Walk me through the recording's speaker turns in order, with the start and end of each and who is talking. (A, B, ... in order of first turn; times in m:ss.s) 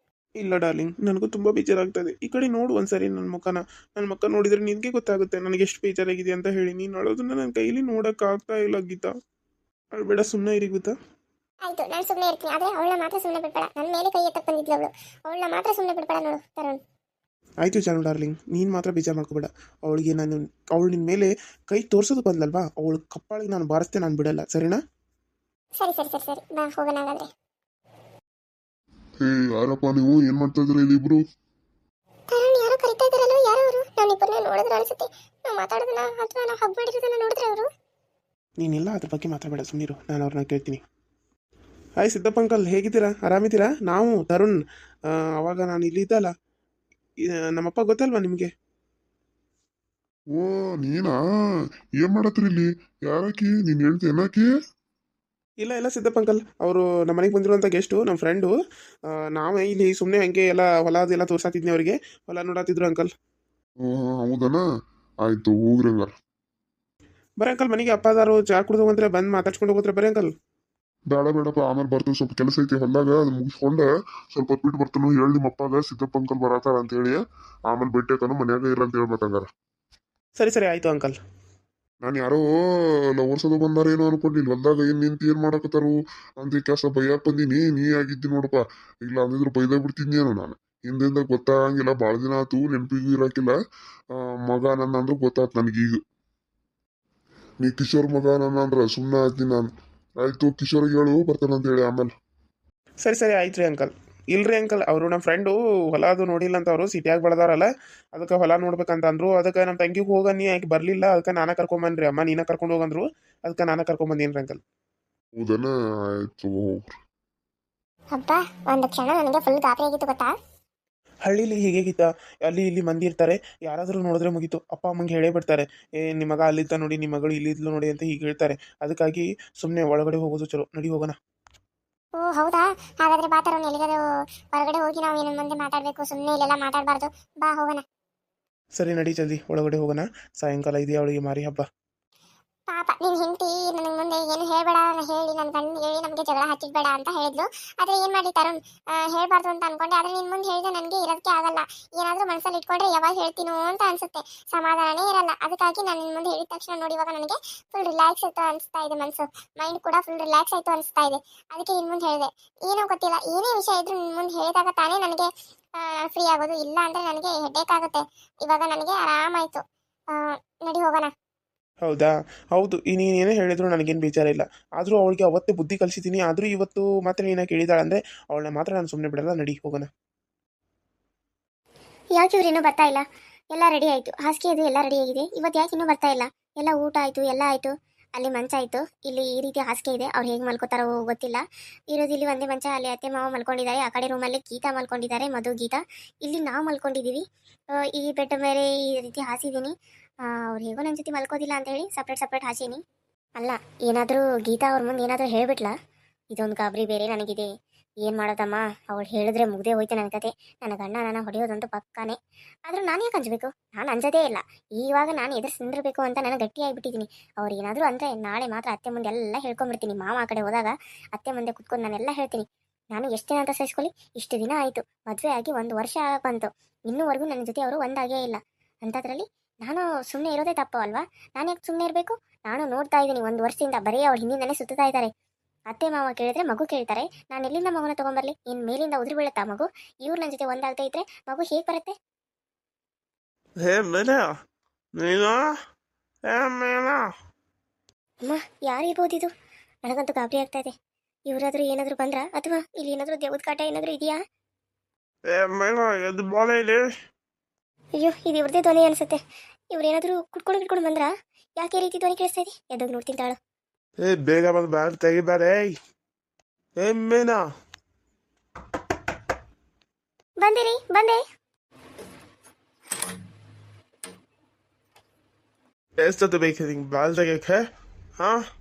0:00.4-0:09.1 A
0:09.9-0:10.9 A
0:11.6-0:16.8 B
0:17.6-0:24.8 A
0:25.8-0:27.3 B
0:29.2-0:31.2 C
0:32.3-0:37.7 B
0:38.6-0:40.8 A
0:42.0-0:44.6 A
0:45.4-0:46.3 A
0:47.2-0:48.5 A
0:50.3-0:51.2 C
0:52.0-0:54.5 C
0:55.6-0:58.5 A
0:59.1-1:03.1 A
1:03.8-1:04.6 C
1:05.2-1:06.1 C
1:07.4-1:10.3 A
1:11.1-1:19.5 C
1:20.4-1:21.2 A
1:22.0-1:22.4 C
1:23.2-1:33.5 C
1:34.2-1:36.0 C
1:37.6-1:42.1 C
1:43.0-1:54.6 A
1:55.4-1:57.0 C
1:58.1-2:00.3 B
2:01.2-2:11.2 A
2:12.2-2:14.0 B
2:14.5-2:17.8 B
2:18.8-2:21.6 A
2:22.7-2:51.1 B
2:51.8-2:59.9 A
3:02.1-3:22.8 B
3:23.4-3:25.7 B
3:26.3-3:27.5 B
3:28.0-3:55.1 B
3:55.7-4:02.0 B
4:03.6-4:04.3 A
4:05.0-4:05.5 A
4:06.3-4:07.1 A
4:08.2-4:09.3 B
4:09.8-4:10.7 B
4:11.3-4:14.2 B
4:15.2-4:16.9 A
4:17.9-4:23.4 B
4:24.0-4:25.7 A
4:26.8-4:27.4 A
4:30.4-4:31.2 B
4:36.0-4:37.6 A